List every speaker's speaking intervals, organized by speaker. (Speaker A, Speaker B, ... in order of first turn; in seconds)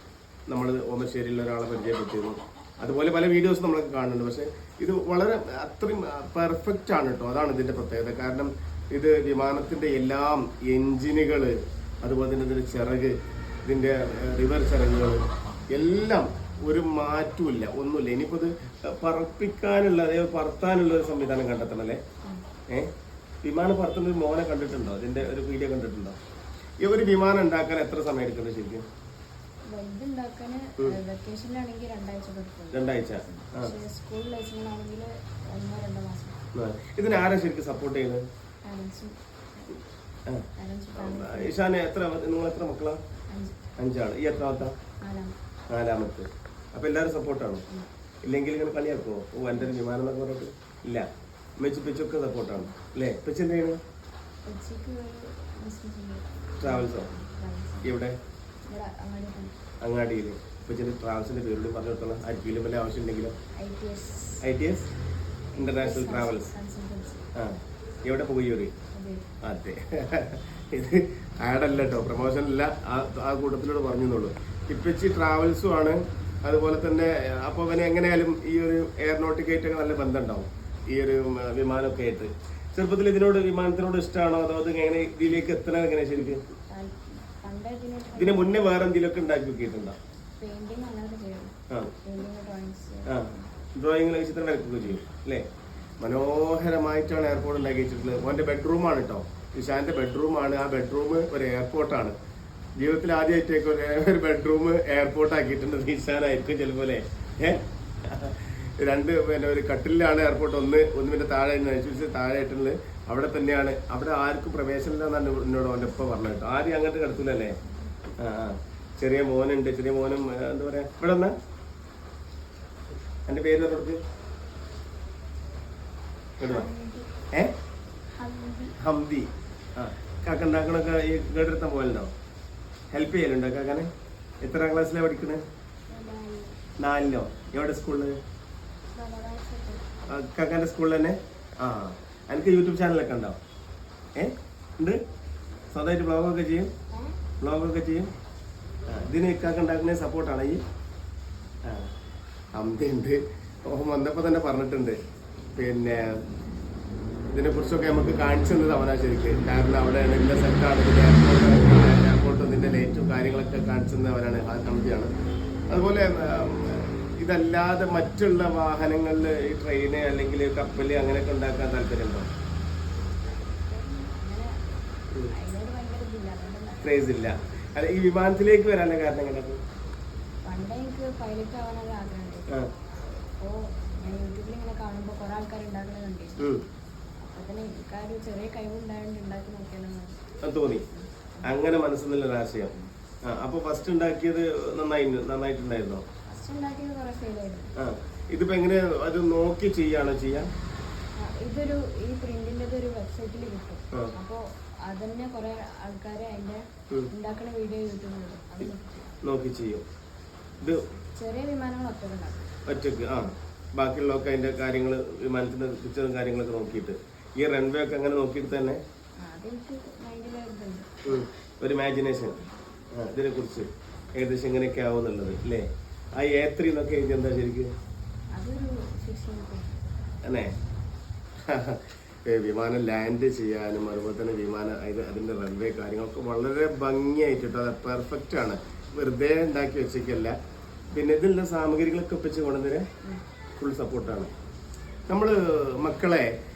Speaker A: 0.5-22.0, 23.4-26.2, 26.8-28.9, 32.7-33.7, 36.5-38.2, 41.0-43.0, 43.8-44.8, 45.7-47.6, 48.2-51.1, 51.6-53.8, 56.6-57.1, 57.8-58.2, 59.8-63.3, 64.4-64.9, 65.6-66.5, 67.4-68.7, 69.4-86.4, 88.2-90.0, 93.1-95.4, 96.0-102.2, 102.8-117.6, 118.2-121.3, 123.3-124.0, 126.4-126.7, 128.8-132.1, 132.9-133.9, 134.4-135.4, 136.8-138.2, 140.1-143.4, 144.2-145.0, 145.7-146.7, 147.4-148.1, 148.9-150.6, 151.7-151.9, 152.6-155.0, 155.6-156.2, 157.3-165.1, 165.7-172.3, 176.8-179.6, 190.4-190.8, 191.4-192.7, 193.2-196.0, 197.8-200.5, 209.2-209.8, 212.7-218.8, 221.1-222.4, 222.9-227.7, 230.2-230.5, 231.5-240.3, 240.9-242.9, 243.6-244.3, 245.1-246.3
Speaker B: 29.7-36.4, 38.6-39.9, 40.6-41.6, 43.3-43.6, 45.0-45.3, 54.5-58.0, 58.7-59.6, 63.6-64.4, 65.6-67.3, 68.9-69.3, 86.7-88.6, 90.4-93.5, 126.4-127.1, 128.1-128.8, 135.9-136.6, 138.9-139.8, 173.5-174.6, 175.3-177.2, 180.4-182.5, 183.4-186.6, 187.2-191.6, 196.3-197.7, 201.2-209.2, 211.1-212.5, 219.2-220.9, 228.3-229.9